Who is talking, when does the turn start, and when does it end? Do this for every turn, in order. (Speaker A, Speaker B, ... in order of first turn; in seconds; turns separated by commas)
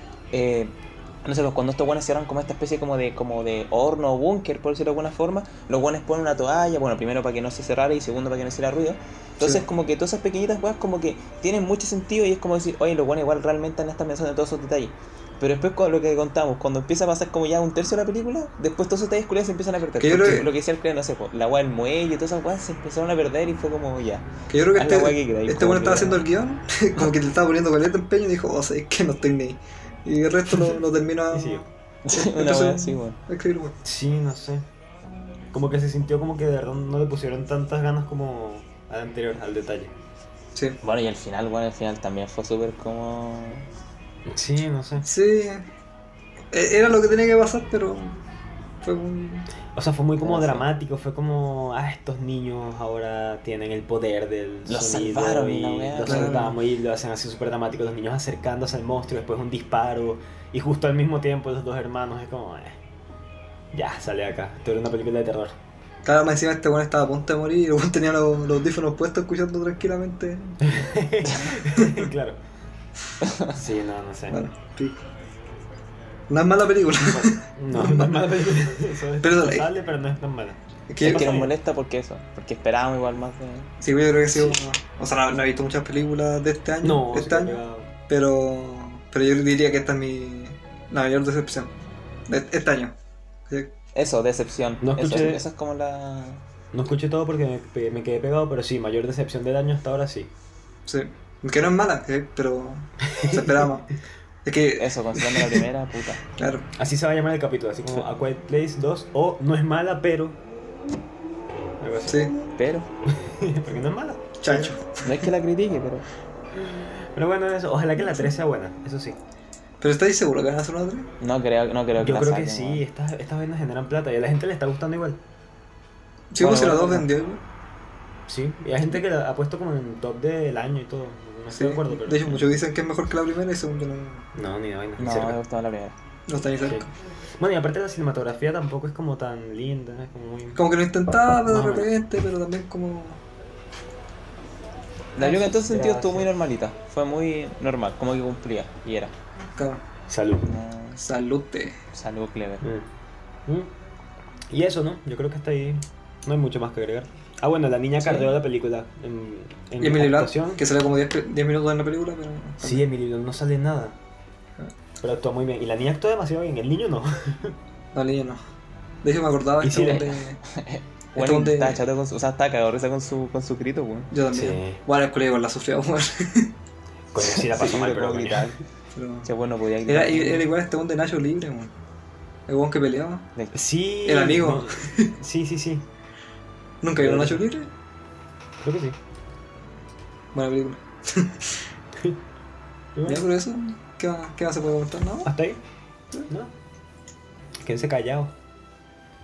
Speaker A: 0.3-26.2, Speaker B: 9.4-9.7, Speaker B: 20.0-20.5, Speaker B: 24.5-33.7, Speaker C: 31.3-31.6, Speaker A: 32.0-33.2, Speaker C: 33.8-34.6, Speaker C: 35.5-39.9, Speaker A: 40.8-43.6, Speaker C: 44.3-45.0, Speaker B: 45.0-45.6, Speaker B: 46.5-48.2, Speaker B: 48.8-49.5, Speaker C: 49.7-62.8, Speaker A: 50.2-50.6, Speaker A: 54.7-56.5, Speaker B: 56.0-56.5, Speaker C: 63.7-65.5, Speaker B: 66.0-70.7, Speaker C: 70.6-72.4, Speaker B: 71.8-72.0, Speaker C: 73.5-74.4, Speaker B: 74.3-75.0, Speaker B: 76.3-78.3, Speaker C: 77.0-81.5, Speaker B: 79.2-79.7, Speaker B: 80.9-81.3, Speaker A: 81.0-83.7, Speaker B: 83.8-91.7, Speaker C: 86.8-87.9, Speaker B: 92.3-92.9, Speaker A: 93.9-96.4, Speaker C: 94.8-95.4, Speaker C: 96.7-100.3, Speaker B: 100.9-103.9, Speaker C: 103.1-103.7, Speaker B: 104.4-105.6, Speaker A: 104.8-106.2, Speaker B: 106.4-106.7, Speaker C: 106.8-110.4, Speaker C: 111.8-112.3, Speaker B: 112.1-112.3, Speaker A: 112.5-112.9, Speaker C: 113.2-114.7, Speaker B: 114.4-115.2, Speaker A: 115.0-116.0, Speaker C: 116.5-119.2, Speaker B: 119.8-121.1, Speaker A: 121.2-122.8, Speaker C: 122.0-125.2, Speaker B: 126.3-127.4, Speaker A: 126.4-127.1, Speaker C: 128.3-132.4, Speaker B: 131.5-134.2, Speaker C: 134.3-135.4, Speaker A: 135.0-135.9, Speaker B: 136.3-136.9, Speaker C: 137.4-140.6, Speaker B: 140.6-143.2, Speaker C: 141.5-141.9, Speaker A: 145.1-149.1, Speaker C: 145.2-146.3, Speaker B: 149.6-149.8, Speaker C: 150.1-150.5, Speaker A: 150.4-151.0, Speaker B: 151.0-151.8, Speaker A: 151.9-152.6, Speaker C: 152.6-152.9, Speaker C: 154.5-160.6, Speaker A: 158.0-158.4, Speaker B: 159.8-162.8, Speaker C: 162.6-164.0, Speaker C: 165.0-167.6, Speaker B: 167.9-168.4, Speaker B: 169.0-170.4, Speaker C: 169.6-170.1, Speaker A: 169.7-174.1, Speaker B: 171.1-171.8, Speaker B: 174.1-176.5, Speaker C: 174.3-174.8, Speaker C: 177.1-178.6, Speaker A: 177.2-178.6, Speaker B: 178.9-179.3, Speaker A: 179.2-180.4, Speaker B: 179.8-181.7, Speaker B: 182.5-183.2, Speaker C: 183.5-185.8, Speaker B: 184.0-185.1, Speaker B: 186.8-187.7, Speaker C: 186.9-187.4, Speaker C: 188.6-188.9, Speaker B: 190.3-191.5, Speaker C: 192.9-193.3, Speaker B: 193.1-195.3, Speaker C: 195.2-195.6, Speaker C: 197.6-198.3